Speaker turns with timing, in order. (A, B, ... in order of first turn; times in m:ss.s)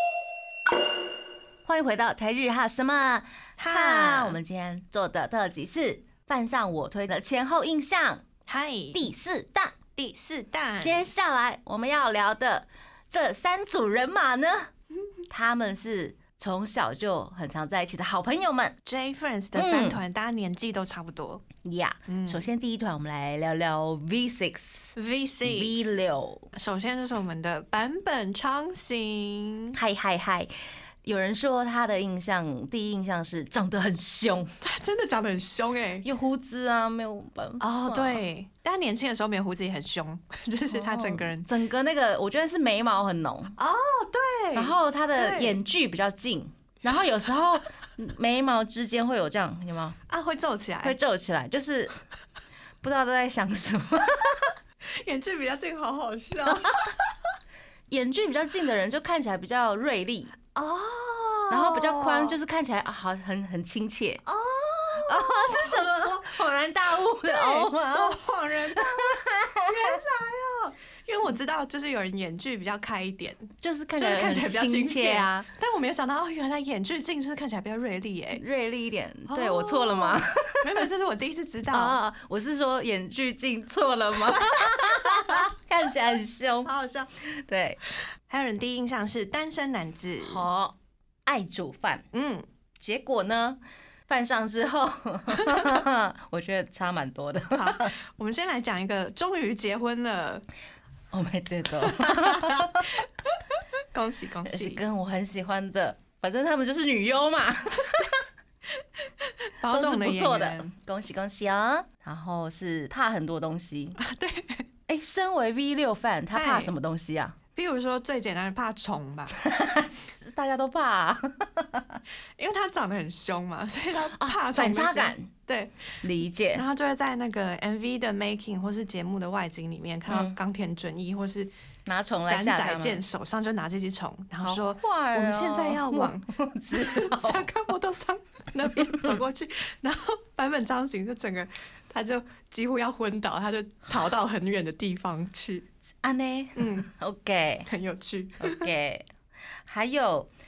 0:01.7-0:08.2 A
0:03.6-0:04.4 B
0:08.5-0:09.1 B
0:08.9-0:09.8 A
0:10.0-0:11.1 B
0:10.8-0:14.7 A
0:15.3-0:18.8 A
0:18.8-0:21.5 B
0:19.6-0:20.0 A
0:21.6-0:26.5 A
0:22.1-0:22.5 B
0:25.0-0:25.9 B
0:26.5-0:29.8 B
0:29.7-0:30.5 A
0:31.0-0:34.5 A
0:34.6-0:36.0 B
0:36.0-0:38.2 A
0:37.6-0:41.5 B
0:40.7-0:43.6 A
0:43.6-0:45.6 B
0:44.6-0:50.0 A
0:50.1-0:51.0 B
0:50.8-0:52.0 A
0:52.8-0:54.5 A
0:54.8-0:57.2 B
0:56.4-0:56.9 A
0:57.9-1:00.4 A
1:00.6-1:02.4 B
1:01.5-1:04.2 A
1:04.2-1:06.4 B
1:05.0-1:10.0 A
1:07.2-1:18.4 B
1:13.6-1:15.5 A
1:18.4-1:20.9 A
1:19.3-1:22.0 B
1:21.7-1:27.8 A
1:24.3-1:25.5 B
1:26.6-1:27.1 B
1:28.3-1:30.5 B
1:30.2-1:32.1 A
1:32.1-1:32.5 B
1:32.8-1:38.0 A
1:35.3-1:35.7 B
1:37.6-1:40.4 B
1:41.1-1:43.0 A
1:41.8-1:42.8 B
1:43.9-1:44.8 B
1:44.5-1:48.2 A
1:49.6-1:50.7 B
1:49.7-1:54.0 A
1:54.0-1:54.7 B
1:54.9-1:57.4 A
1:56.3-1:56.7 B
1:57.6-1:59.4 B
1:59.4-2:02.0 A
2:02.4-2:05.9 B
2:04.2-2:05.3 A
2:06.0-2:06.7 A
2:06.6-2:11.5 B
2:10.1-2:10.4 A
2:11.9-2:13.0 A
2:12.1-2:25.7 B
2:14.4-2:17.5 A
2:18.9-2:19.1 A
2:26.0-2:27.7 A
2:26.6-2:26.9 B
2:27.7-2:28.7 B
2:28.4-2:29.1 A
2:29.7-2:30.3 A